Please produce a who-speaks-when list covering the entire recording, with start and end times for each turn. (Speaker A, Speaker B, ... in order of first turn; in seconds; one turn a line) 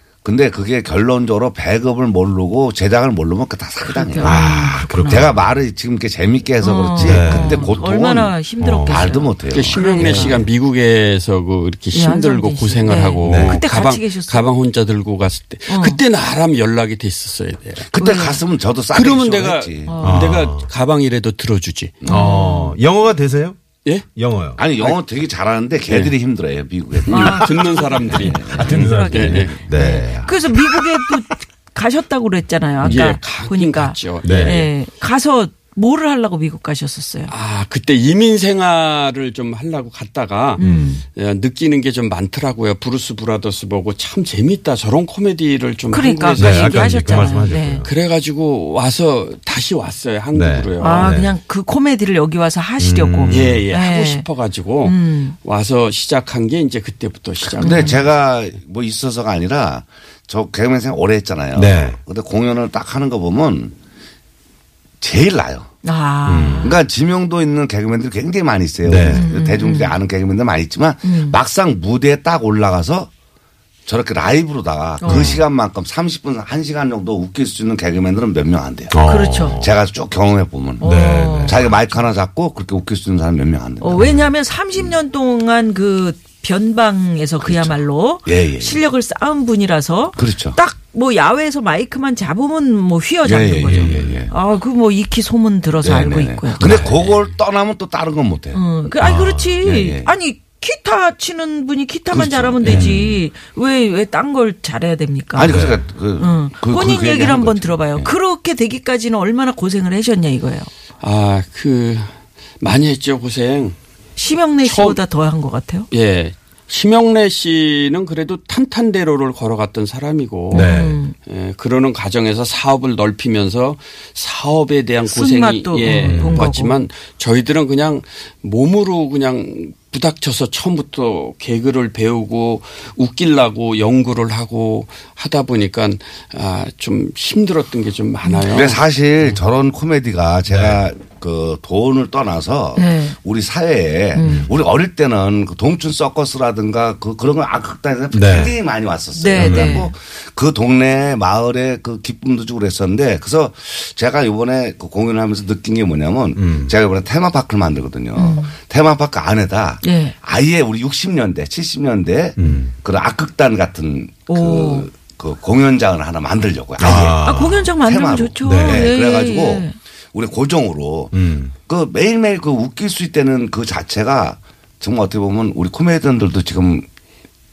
Speaker A: 0.2-4.4
Speaker B: 3.9-5.3
Speaker C: 4.2-5.5
Speaker A: 5.0-8.3
Speaker B: 6.6-10.5
Speaker C: 7.0-7.7
Speaker C: 8.6-9.1
Speaker A: 8.9-9.8
Speaker D: 9.5-17.9
Speaker B: 11.9-14.5
Speaker C: 13.3-13.6
Speaker B: 15.7-16.0
Speaker A: 17.9-19.9
Speaker B: 17.9-18.4
Speaker D: 18.9-22.0
Speaker B: 19.9-20.4
Speaker C: 20.0-20.7
Speaker A: 22.0-22.3
Speaker B: 22.1-22.8
Speaker C: 22.1-23.6
Speaker C: 24.2-24.6
Speaker A: 24.6-27.1
Speaker D: 25.9-26.1
Speaker D: 27.1-29.6
Speaker B: 27.1-37.3
Speaker A: 28.2-28.8
Speaker C: 28.5-30.8
Speaker D: 32.8-34.7
Speaker C: 34.2-34.6
Speaker D: 37.3-47.3
Speaker B: 40.6-41.0
Speaker C: 40.6-40.9
Speaker B: 45.9-47.9
Speaker C: 46.4-47.9
Speaker D: 47.8-51.2
Speaker C: 50.4-51.3
Speaker B: 50.8-54.3
Speaker C: 52.8-53.5
Speaker D: 53.3-58.1
Speaker B: 54.8-55.4
Speaker B: 57.6-58.0
Speaker A: 57.6-63.7
Speaker C: 61.5-62.0
Speaker A: 65.0-65.7
Speaker B: 65.8-66.8
Speaker C: 66.3-66.7
Speaker A: 66.6-73.1
Speaker C: 68.8-69.3
Speaker B: 69.0-70.0
Speaker B: 71.0-71.4
Speaker A: 73.9-79.0
Speaker B: 75.0-75.4
Speaker C: 75.1-75.4
Speaker C: 78.9-79.7
Speaker B: 79.0-79.6
Speaker A: 79.6-80.9
Speaker B: 80.8-81.6
Speaker C: 80.8-81.8
Speaker A: 81.5-84.1
Speaker B: 83.8-96.9
Speaker A: 87.4-88.8
Speaker A: 90.2-90.6
Speaker A: 93.2-94.3
Speaker A: 95.8-98.6
Speaker B: 98.5-105.7
Speaker C: 99.0-99.5
Speaker A: 99.6-100.1
Speaker A: 102.1-102.9
Speaker C: 102.6-103.2
Speaker A: 105.3-108.1
Speaker C: 105.4-105.8
Speaker B: 106.2-110.7
Speaker D: 111.0-113.8
Speaker B: 114.2-115.9
Speaker D: 114.6-115.0
Speaker D: 115.9-138.8
Speaker B: 120.5-121.2
Speaker C: 120.5-120.9
Speaker B: 125.1-126.8
Speaker C: 126.0-126.4
Speaker B: 138.2-138.5
Speaker A: 138.5-167.2
Speaker C: 140.5-140.8
Speaker B: 142.8-143.2
Speaker B: 144.2-144.5
Speaker C: 144.2-144.5
Speaker C: 148.1-148.6
Speaker B: 149.2-149.9
Speaker C: 149.4-149.8
Speaker C: 156.4-156.7
Speaker B: 158.2-158.6
Speaker B: 159.8-160.2
Speaker C: 162.4-162.8
Speaker B: 164.3-164.9
Speaker C: 166.8-167.7
Speaker B: 166.9-169.8
Speaker A: 167.8-176.9
Speaker C: 168.4-168.8
Speaker C: 171.1-171.6